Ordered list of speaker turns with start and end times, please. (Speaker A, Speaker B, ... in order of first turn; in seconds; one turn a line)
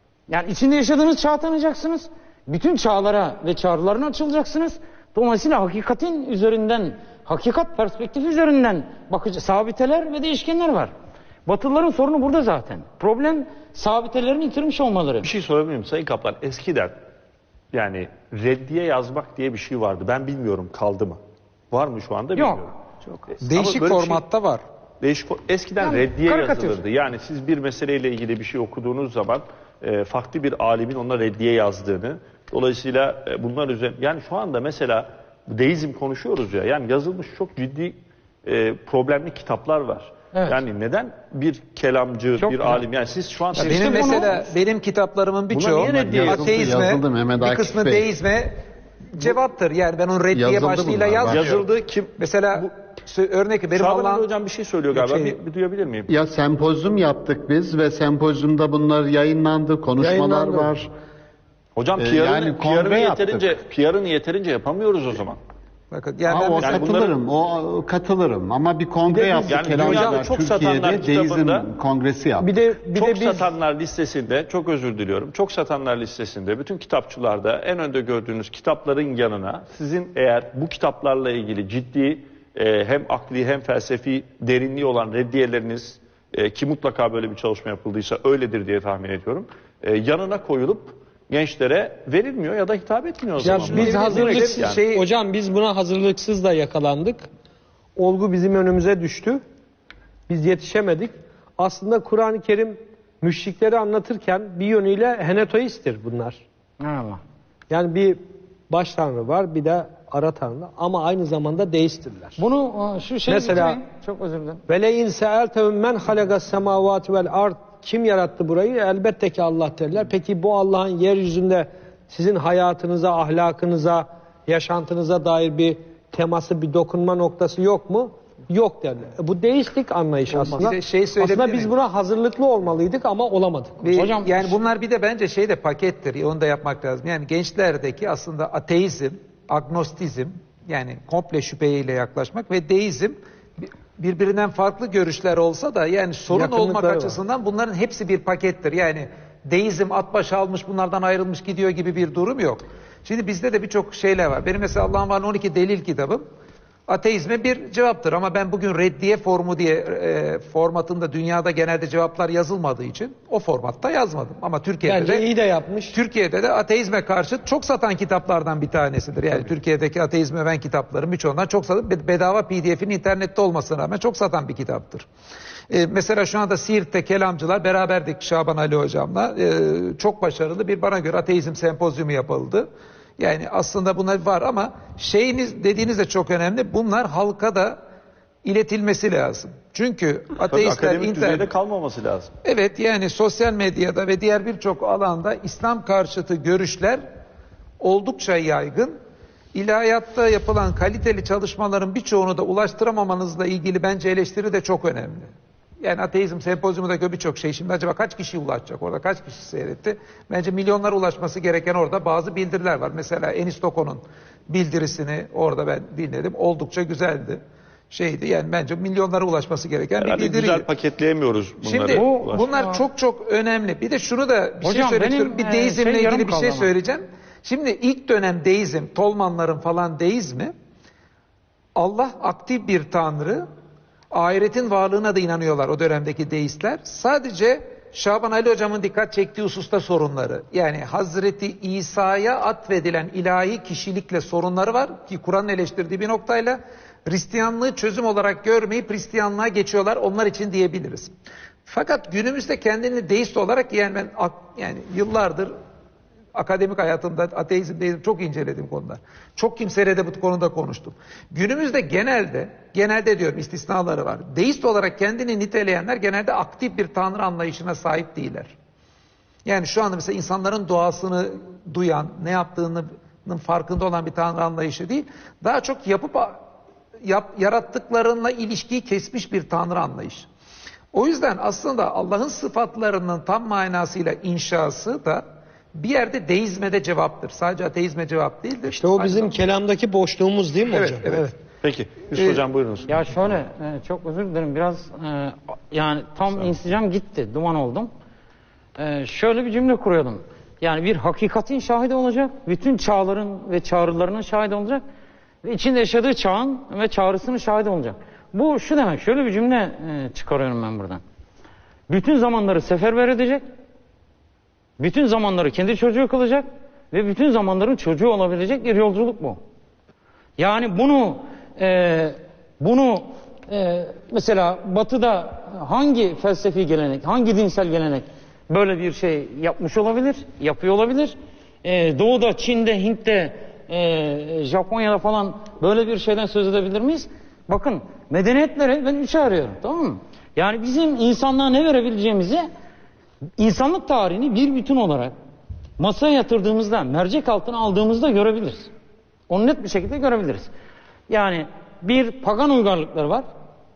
Speaker A: 0.3-10.9
Speaker A: 11.4-15.3
Speaker B: 15.2-16.9
Speaker B: 17.7-21.2
Speaker B: 21.7-22.7
Speaker A: 22.3-22.7
Speaker B: 23.3-24.2
Speaker C: 23.4-24.6
Speaker B: 25.0-44.5
Speaker A: 25.8-26.8
Speaker A: 42.4-42.8
Speaker A: 43.5-44.4
Speaker C: 43.7-48.5
Speaker B: 45.5-46.9
Speaker D: 45.8-48.1
Speaker C: 49.1-51.6
Speaker D: 50.3-51.6
Speaker B: 51.2-52.7
Speaker C: 52.2-54.2
Speaker B: 53.7-56.1
Speaker C: 54.9-55.4
Speaker D: 56.1-60.9
Speaker E: 60.0-60.8
Speaker B: 61.8-65.4
Speaker D: 62.0-63.5
Speaker C: 65.9-66.9
Speaker D: 66.2-72.5
Speaker B: 66.6-67.1
Speaker B: 69.3-71.6
Speaker E: 72.4-73.5
Speaker B: 72.9-94.8
Speaker E: 93.4-97.2
Speaker C: 93.5-95.0
Speaker E: 98.0-99.4
Speaker E: 100.3-106.4
Speaker A: 106.8-107.2
Speaker E: 107.7-112.4
Speaker A: 112.4-114.6
Speaker E: 113.3-113.8
Speaker E: 114.7-133.8
Speaker C: 130.3-131.7
Speaker C: 133.8-156.2
Speaker A: 133.9-134.6
Speaker E: 146.3-147.2
Speaker C: 156.9-165.2
Speaker E: 164.8-166.0
Speaker C: 165.9-175.1
Speaker C: 175.7-182.7
Speaker C: 183.2-187.8
Speaker C: 188.4-191.5
Speaker B: 190.4-192.3
Speaker C: 192.4-197.0
Speaker C: 197.8-198.9
Speaker C: 199.5-220.6
Speaker B: 219.9-222.5
Speaker C: 221.6-230.5
Speaker A: 221.9-222.8
Speaker A: 224.6-226.7
Speaker C: 231.8-233.4
Speaker C: 234.1-251.1
Speaker C: 251.7-255.5
Speaker C: 256.3-268.5
Speaker C: 269.4-276.4
Speaker C: 277.0-280.3
Speaker C: 280.9-285.2
Speaker C: 285.7-289.4
Speaker E: 288.7-291.3
Speaker C: 290.7-291.3
Speaker B: 291.6-293.0
Speaker C: 292.1-292.4
Speaker A: 292.9-297.9
Speaker A: 298.8-304.8
Speaker A: 305.4-311.0
Speaker A: 311.9-313.4
Speaker A: 314.8-319.4
Speaker A: 320.4-342.4
Speaker A: 343.4-345.1
Speaker A: 345.8-348.7
Speaker A: 349.3-350.5
Speaker A: 351.1-353.2